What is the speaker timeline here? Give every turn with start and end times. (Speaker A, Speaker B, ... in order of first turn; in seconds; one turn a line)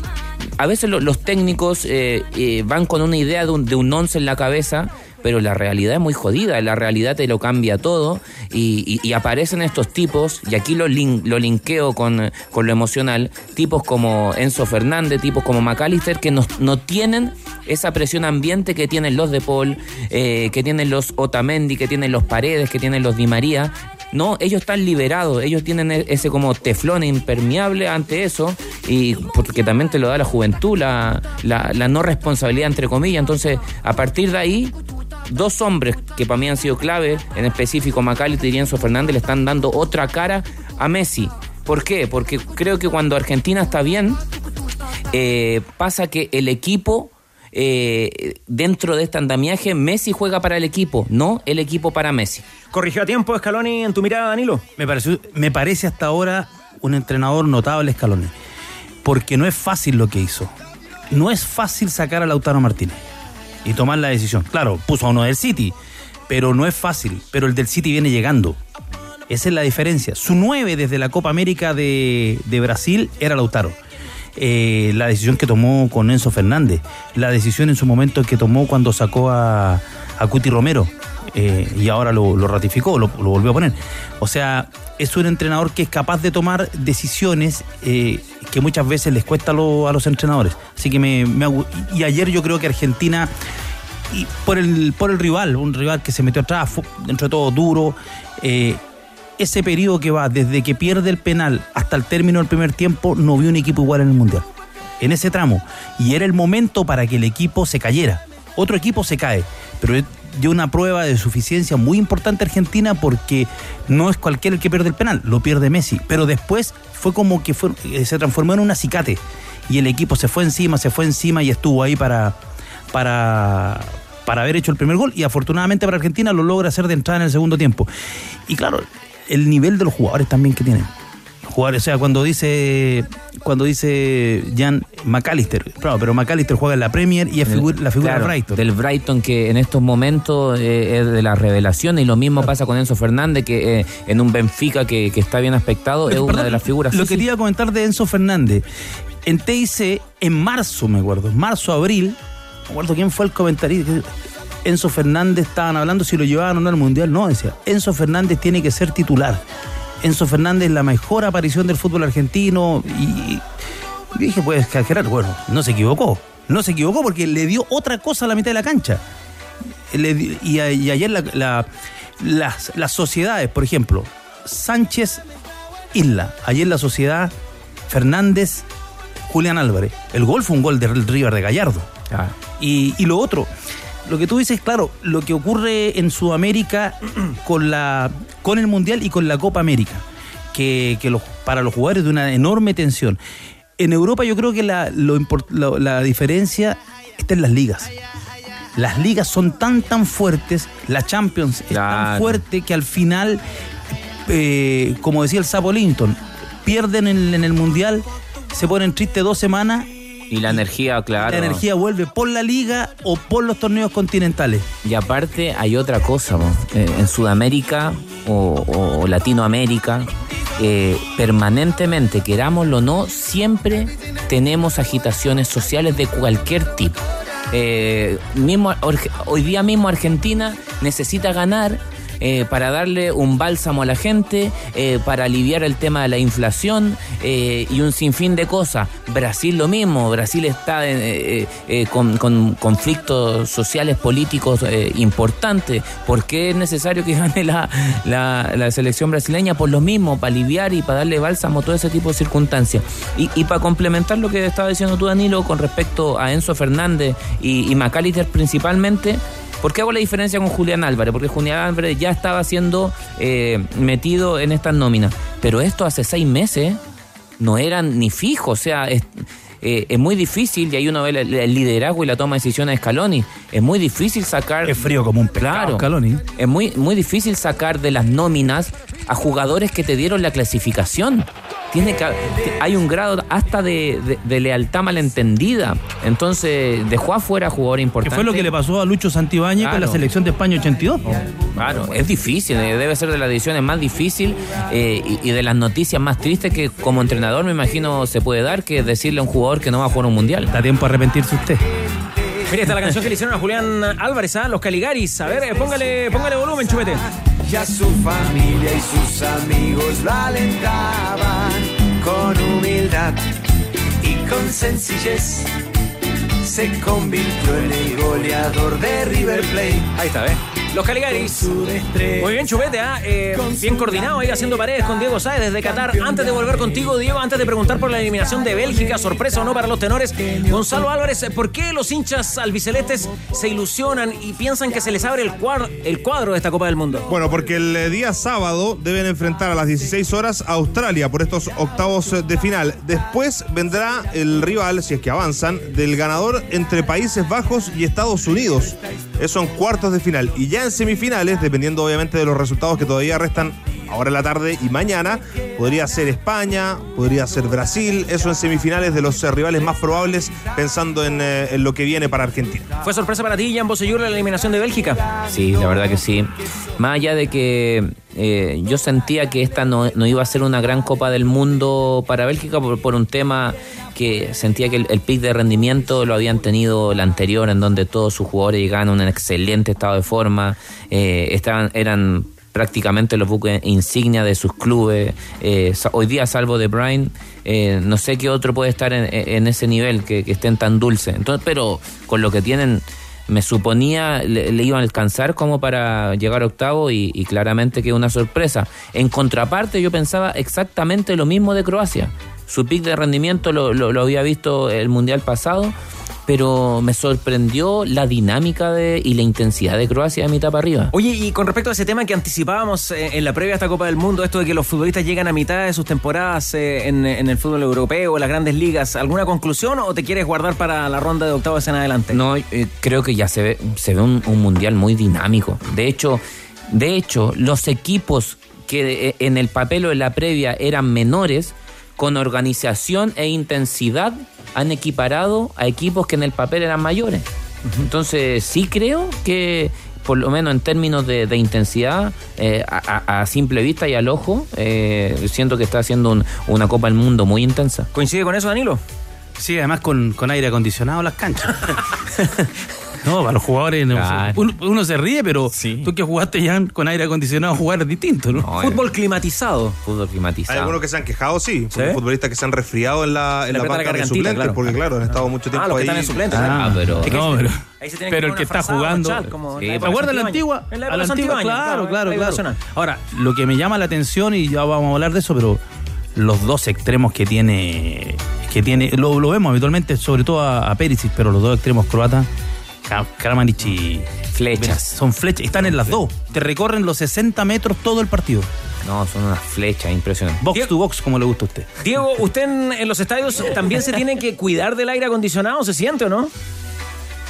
Speaker A: 0.6-34.7
Speaker A: 35.3-44.2
Speaker A: 45.1-52.4
Speaker B: 52.7-54.6
Speaker C: 54.8-58.3
Speaker C: 59.0-60.5
Speaker C: 61.1-63.0
Speaker C: 63.6-65.7
Speaker C: 66.3-68.6
Speaker C: 69.3-73.8
Speaker C: 74.4-93.3
Speaker C: 94.1-98.8
Speaker C: 99.4-104.5
Speaker C: 105.0-122.4
Speaker C: 122.9-127.9
Speaker C: 128.5-130.9
Speaker C: 131.4-138.6
Speaker A: 137.5-147.2
Speaker C: 146.1-148.6
Speaker C: 149.2-154.1
Speaker C: 154.6-159.4
Speaker C: 160.0-163.4
Speaker C: 164.1-169.0
Speaker C: 169.9-171.7
Speaker C: 172.2-175.2
Speaker C: 175.9-177.3
Speaker C: 177.9-178.7
Speaker C: 179.3-181.9
Speaker C: 182.6-183.5
Speaker C: 184.1-193.2
Speaker C: 193.8-197.9
Speaker C: 198.8-203.4
Speaker A: 201.7-202.4
Speaker C: 204.3-209.9
Speaker A: 210.3-211.6
Speaker C: 211.3-214.7
Speaker A: 214.8-227.0
Speaker A: 227.5-266.8
Speaker A: 267.4-288.5
Speaker C: 274.6-276.2
Speaker C: 288.0-291.2
Speaker A: 289.6-290.0
Speaker A: 291.4-300.5
Speaker C: 300.5-301.6
Speaker B: 302.5-307.0
Speaker D: 307.5-313.2
Speaker D: 314.0-315.5
Speaker D: 316.4-320.0
Speaker B: 320.0-321.5
Speaker D: 321.3-322.5
Speaker B: 322.2-337.1
Speaker E: 337.1-362.7
Speaker B: 362.8-365.1
Speaker A: 365.3-405.8
Speaker A: 406.3-410.9
Speaker B: 410.9-422.2
Speaker A: 422.1-437.2
Speaker A: 437.8-447.9
Speaker B: 447.9-448.8
Speaker C: 449.4-452.5
Speaker C: 453.0-458.5
Speaker A: 453.9-454.4
Speaker A: 455.6-455.9
Speaker A: 458.4-458.8
Speaker B: 458.6-459.8
Speaker A: 459.9-460.8
Speaker E: 460.5-466.3
Speaker B: 461.7-462.0
Speaker B: 463.5-472.6
Speaker C: 466.3-475.6
Speaker A: 466.3-467.2
Speaker A: 469.6-469.9
Speaker C: 476.1-482.3
Speaker C: 482.9-488.5
Speaker A: 484.3-485.0
Speaker A: 488.8-490.4
Speaker C: 490.4-491.7
Speaker B: 491.8-496.3